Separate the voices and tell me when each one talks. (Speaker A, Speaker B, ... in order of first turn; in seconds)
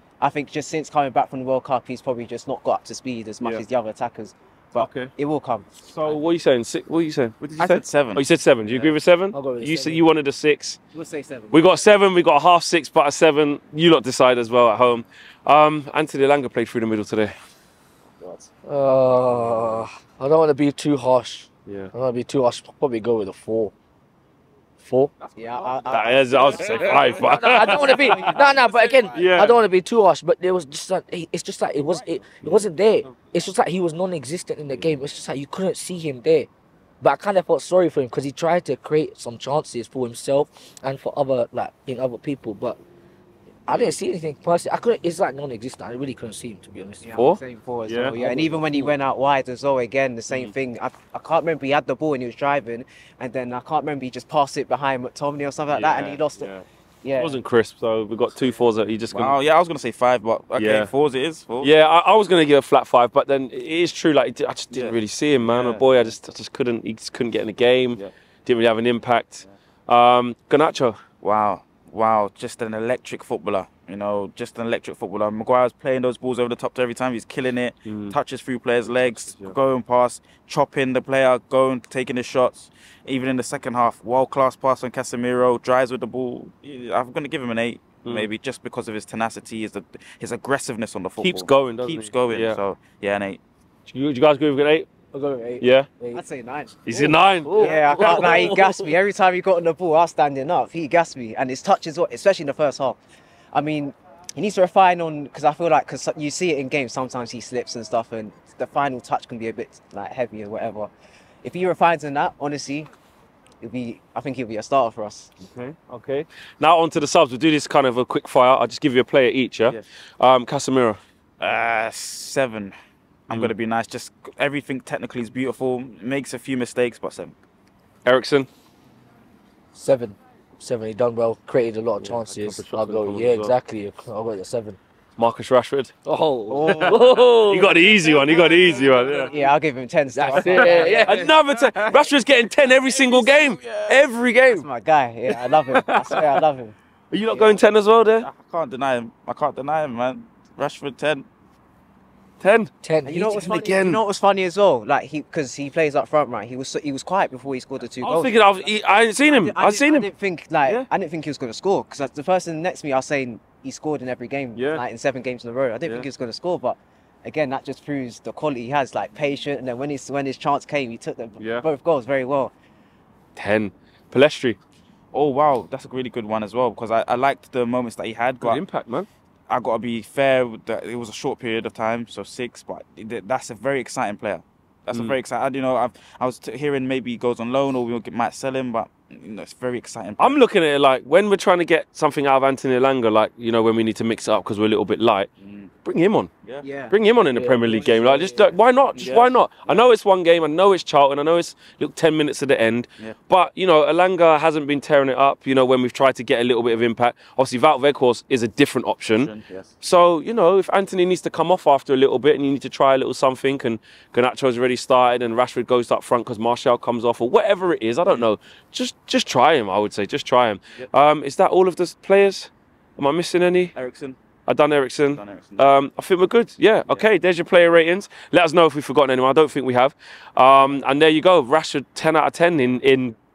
Speaker A: 0.2-5.7, 10.9-11.9, 18.2-18.5, 25.4-26.9, 27.9-28.4, 47.0-56.5, 57.0-57.4, 96.1-96.8, 97.5-103.0, 103.5-110.9, 111.4-112.9, 113.6-115.3, 136.5-136.9, 139.3-141.1, 144.5-146.7, 147.3-147.6, 153.0-158.4, 159.3-172.5, 196.6-196.9
Speaker B: 4.8-5.1, 5.9-10.8, 11.5-17.3, 19.3-19.9, 21.6-21.9, 25.9-28.4, 29.1-29.6, 47.1-48.9, 55.7-59.4, 60.5-60.9, 61.6-71.0, 77.8-78.2, 78.9-79.5, 88.0-88.3, 91.2-92.6, 93.9-94.9, 95.6-95.9, 96.8-98.9, 115.4-121.0, 128.0-128.5, 132.0-133.5, 135.2-135.9, 136.7-139.3, 140.3-144.7, 145.3-146.4, 147.1-148.2, 152.4-152.7, 153.3-154.0, 158.0-160.1, 164.6-164.8, 171.4-171.7, 173.3-174.6, 178.4-179.1, 184.9-185.2, 190.2-195.3, 195.8-196.3, 196.9-223.7, 224.5-233.2
Speaker C: 7.6-9.0, 25.2-29.3, 59.1-61.7, 64.7-66.1, 71.2-93.4, 121.4-122.7, 123.3-127.3, 136.7-136.9, 138.5-139.3, 141.1-142.0, 142.8-144.0, 148.2-151.3, 175.1-178.6, 179.5-190.4, 195.4-195.7, 198.9-199.8, 209.2-209.7, 223.7-224.2, 225.1-225.7
Speaker D: 9.3-10.0, 18.6-23.7, 24.8-25.1, 26.9-36.5, 37.0-42.8, 43.7-47.2, 95.1-96.2, 96.9-98.5, 129.7-134.8, 136.0-137.8, 140.1-141.3, 152.8-153.6, 197.3-198.5